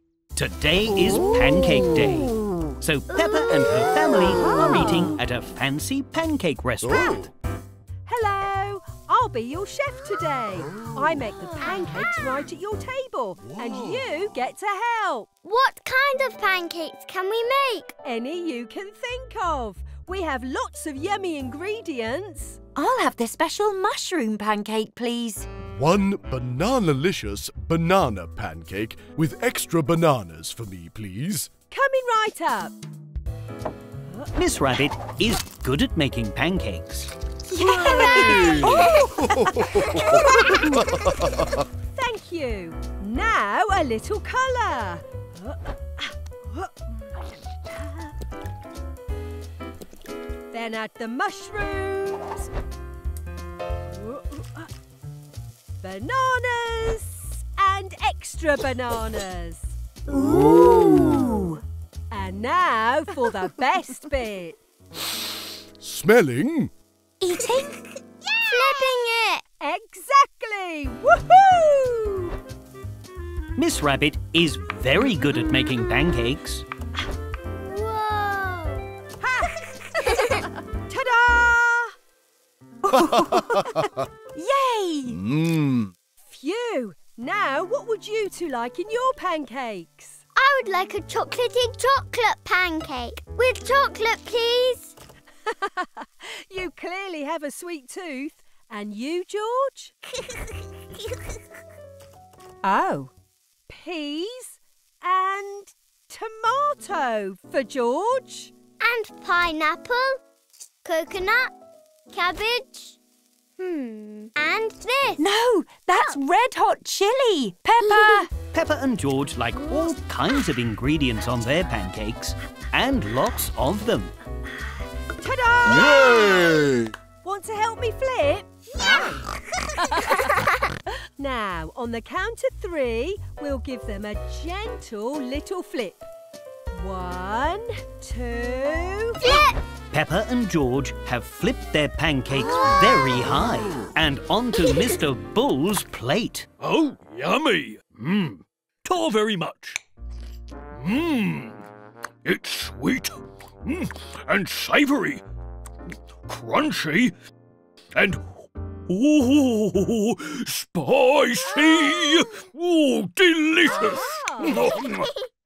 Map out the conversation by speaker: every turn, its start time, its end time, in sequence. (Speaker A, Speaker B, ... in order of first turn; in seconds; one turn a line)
Speaker A: 0.4-7.3
Speaker B: 0.9-2.8
Speaker C: 3.1-4.4
Speaker B: 4.3-5.2
Speaker D: 6.8-7.3
Speaker E: 8.1-15.3
Speaker D: 10.7-11.1
Speaker D: 13.4-14.1
Speaker C: 15.4-17.9
Speaker E: 18.1-22.6
Speaker B: 22.7-25.5
Speaker D: 25.7-31.5
Speaker E: 31.7-32.7
Speaker A: 34.3-37.1
Speaker B: 37.5-40.8
Speaker E: 37.6-38.9
Speaker D: 38.1-41.6
Speaker E: 41.9-48.1
Speaker E: 50.5-52.5
Speaker E: 53.9-54.7
Speaker E: 55.8-59.7
Speaker B: 60.1-61.6
Speaker D: 60.1-61.3
Speaker E: 62.1-64.6
Speaker D: 65.8-66.7
Speaker B: 67.2-67.9
Speaker C: 68.4-69.4
Speaker E: 69.6-72.3
Speaker A: 73.6-76.6
Speaker C: 77.7-78.9
Speaker E: 79.2-81.9
Speaker C: 80.1-80.4
Speaker B: 82.8-85.2
Speaker D: 82.9-84.0
Speaker D: 85.1-85.9
Speaker E: 86.2-90.2
Speaker C: 90.3-94.9
Speaker E: 95.5-99.9
Speaker B: 102.6-103.1
Speaker E: 103.7-108.5
Speaker C: 108.8-110.2
Speaker C: 110.8-111.5
Speaker C: 112.1-113.0
Speaker C: 113.6-115.2
Speaker B: 115.2-118.3
Speaker A: 118.4-124.1
Speaker E: 125.2-129.2
Speaker D: 125.7-126.9
Speaker B: 128.8-129.2
Speaker E: 129.8-130.4
Speaker E: 131.2-136.0
Speaker E: 136.7-139.4
Speaker C: 139.2-139.6
Speaker A: 139.9-146.5
Speaker F: 146.6-149.8
Speaker F: 150.8-151.6
Speaker F: 152.2-155.2
Speaker F: 156.3-157.1
Speaker F: 157.9-165.1
Speaker E: 163.7-164.6